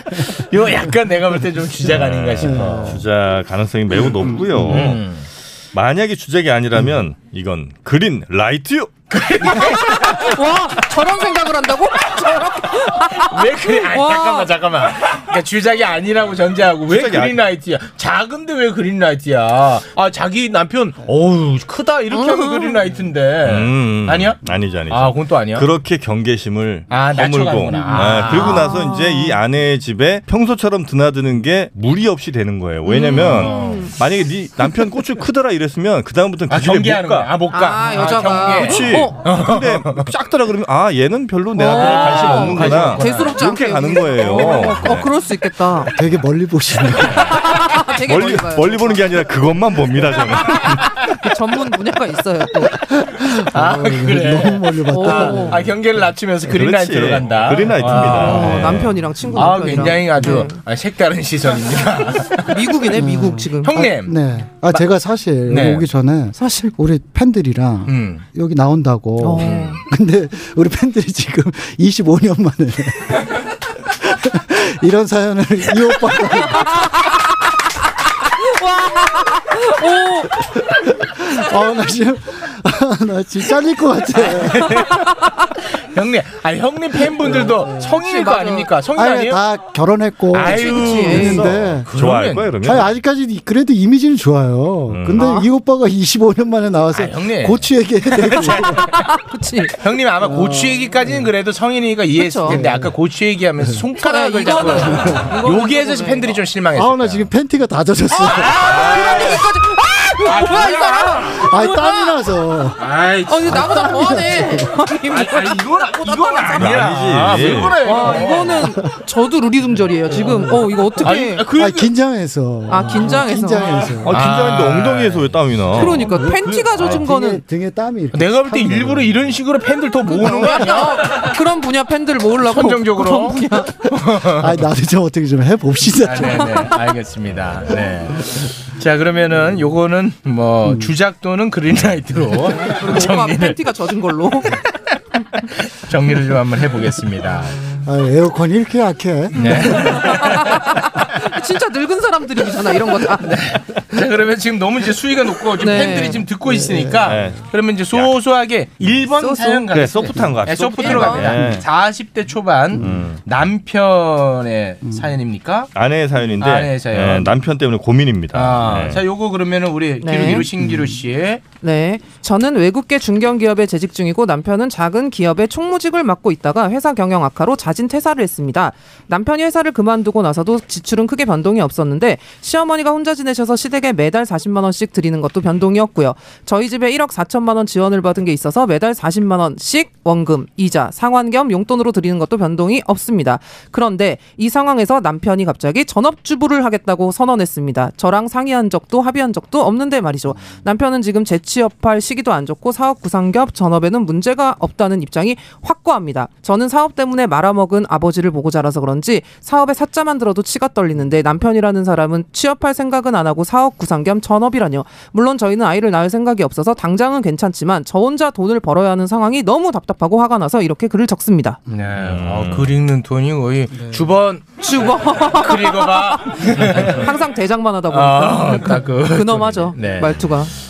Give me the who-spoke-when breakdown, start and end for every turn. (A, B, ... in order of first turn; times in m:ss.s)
0:00.1-0:03.0 A
0:01.9-0:05.1 B
0:02.4-0:03.0 C
0:04.2-0:04.9 C
0:04.5-0:05.2 A
0:05.7-0:09.0 B
0:09.1-0:10.4 A
0:09.6-0:14.5 D
0:12.2-0:24.4 A
0:16.9-0:17.4 B
0:22.1-0:22.8 D
0:23.4-0:37.3 B
0:24.9-0:25.7 A
0:26.9-0:28.7 A
0:27.8-0:29.4 D
0:32.9-0:33.9 D
0:33.1-0:33.9 A
0:36.5-0:40.1 A
0:37.5-0:39.2 D
0:38.5-0:45.1 B
0:41.6-0:45.9 D
0:41.7-0:43.4 A
0:45.9-0:47.3 C
0:47.2-0:49.1 D
0:48.0-0:50.9 B
0:50.3-0:52.7 D
0:52.9-0:55.7 C
0:53.5-0:58.8 A
0:54.9-0:55.6 D
0:56.5-0:59.0 B
0:57.9-1:00.6 D
0:59.3-1:02.7 A
1:02.5-1:03.8 D
1:02.9-1:13.3 C
1:03.6-1:04.2 A
1:05.5-1:05.9 A
1:06.4-1:06.7 D
1:07.9-1:08.2 A
1:09.2-1:09.8 D
1:09.4-1:09.8 A
1:13.9-1:16.8 C
1:16.6-1:17.2 D
1:18.3-1:20.4 D
1:20.4-1:24.9 C
1:24.2-1:25.1 A
1:25.9-1:29.4 A
1:27.2-1:28.0 C
1:28.0-1:28.7 D
1:29.0-1:31.9 C
1:30.3-1:32.6 A
1:30.4-1:31.5 D
1:31.1-1:32.9 B
1:32.6-1:38.9 C
1:34.9-1:35.2 B
1:35.2-1:35.5 D
1:36.9-1:37.7 A
1:38.5-1:38.8 A
1:38.5-1:39.7 D
1:39.8-1:47.3 A
1:40.2-1:41.3 C
1:42.2-1:42.6 D
1:42.5-1:43.0 C
1:44.0-1:46.4 D
1:44.7-1:45.4 C
1:46.8-1:48.9 C
1:48.1-1:52.2 D
1:48.3-1:49.5 A
1:48.9-1:49.4 B
1:50.0-1:51.5 A
1:51.2-1:52.9 C
1:52.8-1:54.2 A
1:53.3-1:56.9 D
1:53.4-1:54.8 C
1:55.0-1:58.7 A
1:56.6-1:57.8 B
1:57.8-2:01.4 D
1:58.2-1:58.9 C
2:00.1-2:04.2 C
2:01.0-2:01.9 A
2:02.7-2:04.0 D
2:04.0-2:06.1 B
2:04.1-2:07.0 A
2:05.7-2:07.4 D
2:06.1-2:09.2 C
2:08.1-2:11.2 A
2:10.1-2:13.7 D
2:12.4-2:14.6 A
2:14.2-2:16.7 C
2:16.0-2:23.6 A
2:20.6-2:20.9 C
2:22.6-2:24.5 D
2:25.6-2:27.7 A
2:27.8-2:30.1 C
2:29.4-2:30.5 A
2:29.5-2:33.3 D
2:33.2-2:45.7 A
2:35.6-2:36.2 D
2:36.4-2:37.4 C
2:37.0-2:38.1 B
2:39.2-2:39.6 D
2:39.7-2:41.6 B
2:40.7-2:41.3 D
2:42.8-2:43.1 C
2:42.8-2:43.2 B
2:45.8-2:49.0 B
2:46.4-2:47.4 A
2:48.3-2:51.4 A
2:50.0-2:50.5 D
2:50.6-2:51.0 C
2:51.6-3:41.6 D
3:20.3-3:20.6 C
3:41.7-3:47.1 A
3:42.0-3:42.8 B
3:43.8-3:44.1 C
3:44.6-3:50.5 D
3:47.9-3:50.4 A